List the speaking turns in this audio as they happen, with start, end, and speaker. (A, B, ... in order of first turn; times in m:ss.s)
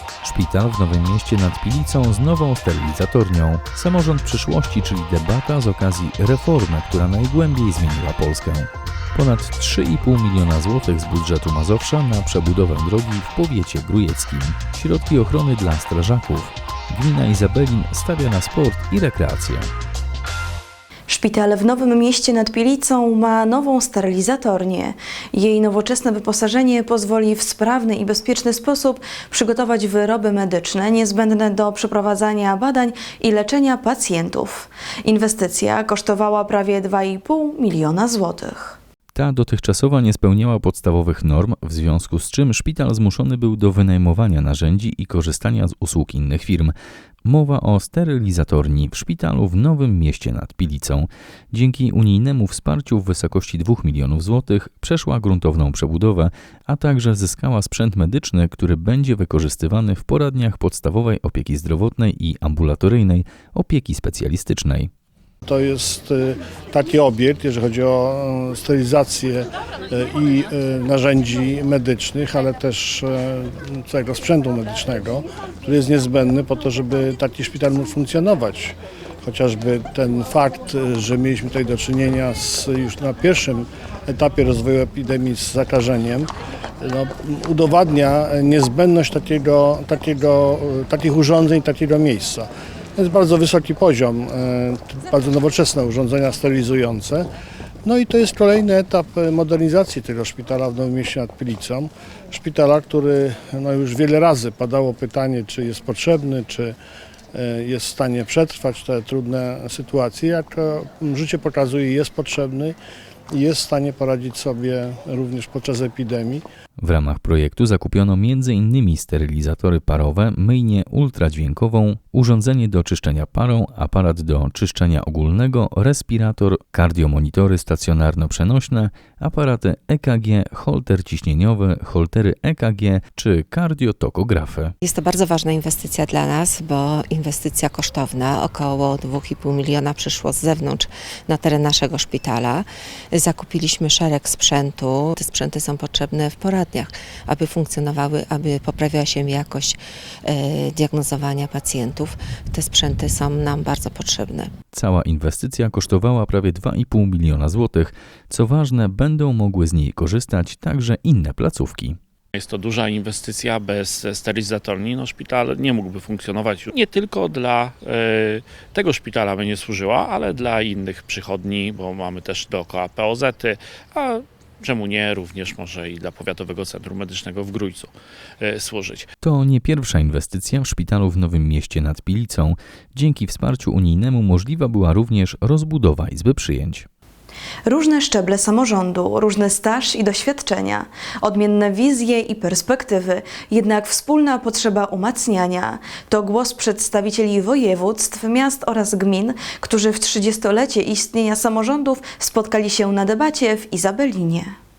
0:00.2-0:19.7 A
0:21.1-0:38.8 B
0:39.1-0:46.7 A
0:47.2-1:04.9 A
1:05.4-1:26.3 C
1:26.8-1:37.3 C
1:37.8-1:46.8 C
1:47.3-1:52.8 C
1:53.3-1:56.4 C
1:56.8-2:14.7 A
2:14.8-2:34.5 D
2:34.7-2:42.0 A
2:42.3-2:59.1 E
2:59.2-3:06.9 A
3:07.6-3:24.5 B